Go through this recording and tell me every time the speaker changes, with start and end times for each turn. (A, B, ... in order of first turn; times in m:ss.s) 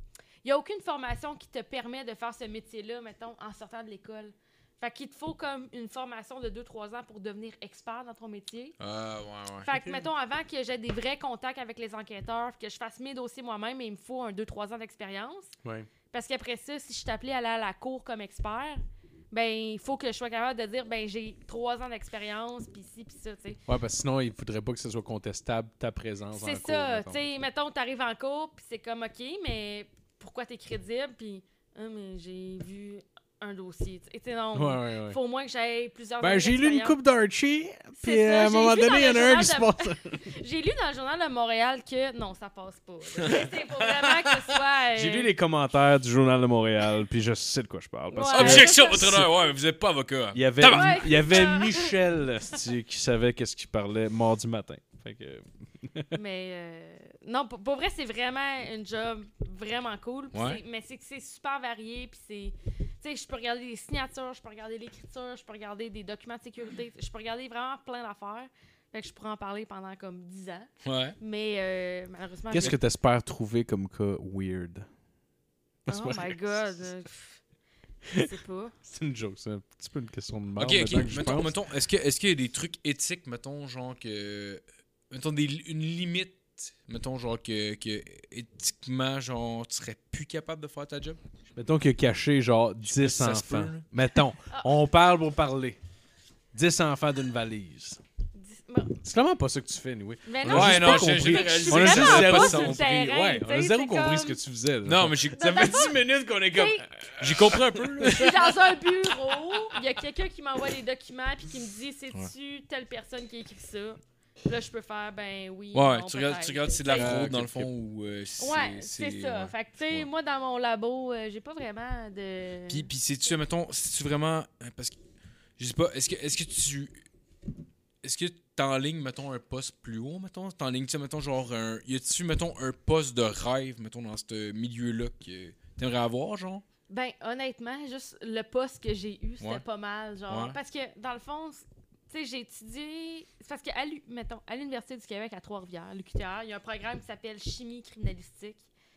0:00.4-0:08.8 A
0:08.8-0:09.7 B
0:09.6-0:15.5 A
0:09.7-0:10.1 C
0:16.1-0:23.6 A
0:23.7-0:27.4 C
0:26.3-0:37.0 A
0:34.5-0:35.2 C
0:36.2-0:40.3 C
0:38.0-0:45.3 A
0:44.9-0:49.3 C
0:48.1-0:49.2 A
0:48.3-0:51.4 B
0:50.3-0:56.2 C
0:50.7-0:52.0 A
0:56.1-1:12.8 A
1:00.3-1:00.6 B
1:10.8-1:11.2 B
1:12.5-1:14.9 C
1:15.9-1:16.9 C
1:15.9-1:17.4 A
1:18.2-1:18.7 A
1:18.8-1:21.6 C
1:20.6-1:31.2 B
1:31.5-1:35.8 C
1:32.8-1:33.9 B
1:36.5-1:38.0 C
1:38.4-1:39.0 A
1:39.0-1:48.4 C
1:40.3-1:44.4 A
1:40.4-1:42.8 B
1:44.8-1:46.0 B
1:45.3-1:46.9 A
1:47.2-1:48.5 B
1:48.0-1:57.3 A
1:55.7-2:00.1 B
1:56.9-1:57.7 C
1:58.4-2:02.9 A
2:02.7-2:05.0 B
2:05.6-2:07.0 B
2:08.0-2:16.6 B
2:16.9-2:28.6 A
2:20.3-2:20.6 B